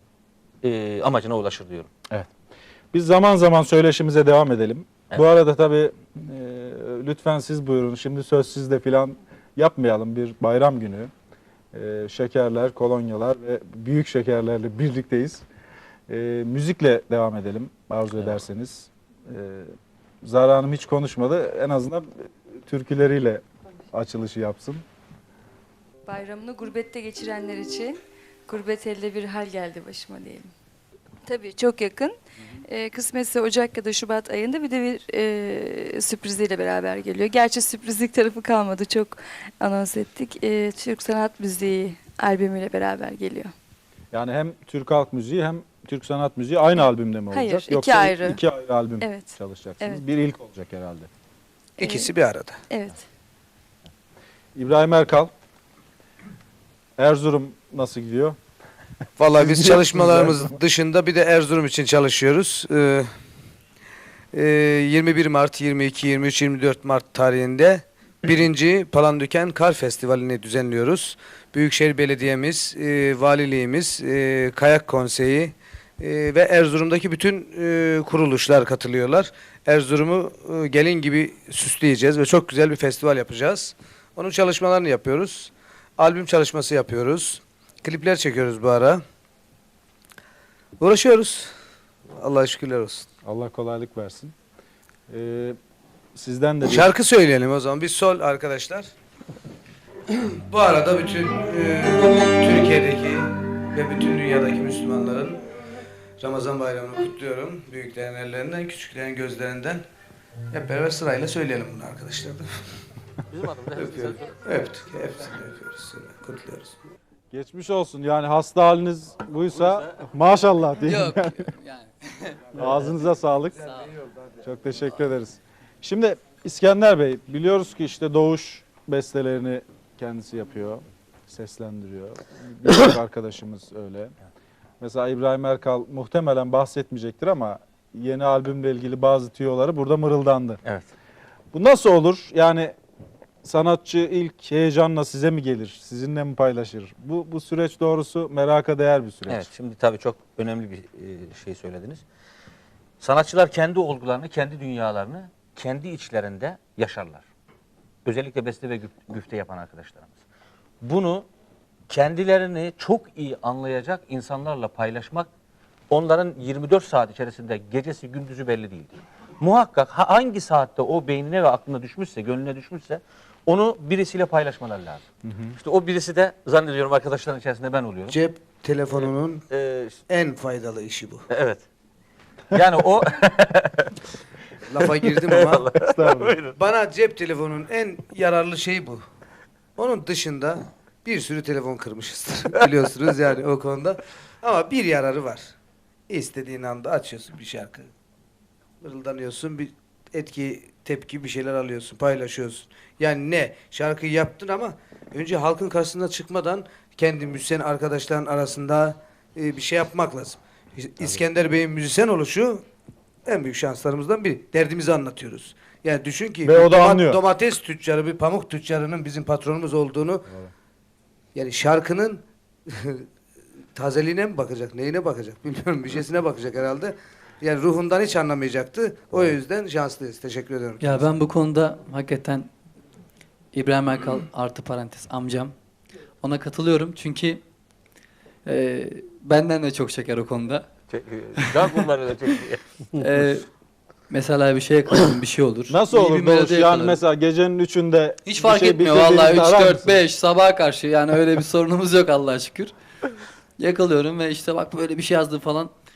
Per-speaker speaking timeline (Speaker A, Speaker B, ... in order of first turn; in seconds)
Speaker A: 0.6-1.9, 113.3-114.3, 149.3-152.0, 153.0-157.2, 158.0-160.2, 160.8-161.3, 161.9-165.3, 165.9-175.0, 175.6-178.2, 179.0-180.0, 181.3-181.6, 182.5-183.9, 185.3-186.5, 240.9-242.6
Speaker B: 2.9-11.1, 11.7-15.4, 16.1-19.7, 20.2-24.8, 44.1-51.1, 54.5-55.3, 57.0-58.4, 59.5-60.4, 93.2-94.3, 95.1-95.6, 96.1-96.9, 117.3-121.4, 122.5-123.7, 124.4-134.1, 134.8-140.6, 141.5-142.7, 143.4-149.5, 175.2-175.5, 185.8-186.4, 216.4-217.2, 245.7-250.0
Speaker C: 26.0-30.5, 31.2-43.5, 47.3-48.4, 49.0-50.0, 51.8-52.1, 52.7-53.0
Speaker D: 51.8-52.6, 59.2-63.1, 64.3-89.0, 90.8-91.5, 92.2-93.1, 96.6-98.9, 100.1-105.4, 106.2-109.8, 110.5-112.5, 113.7-116.7, 178.1-179.4, 180.1-181.2, 184.7-185.7, 186.5-189.0, 189.8-195.5, 196.1-197.9, 198.8-212.6, 213.2-220.3, 221.3-223.1, 223.7-231.1
Speaker E: 120.8-122.5, 230.8-232.5, 233.5-235.5, 236.2-237.4, 238.4-240.7, 241.4-241.8, 243.0-243.5, 244.1-247.0, 248.2-252.7, 253.6-255.7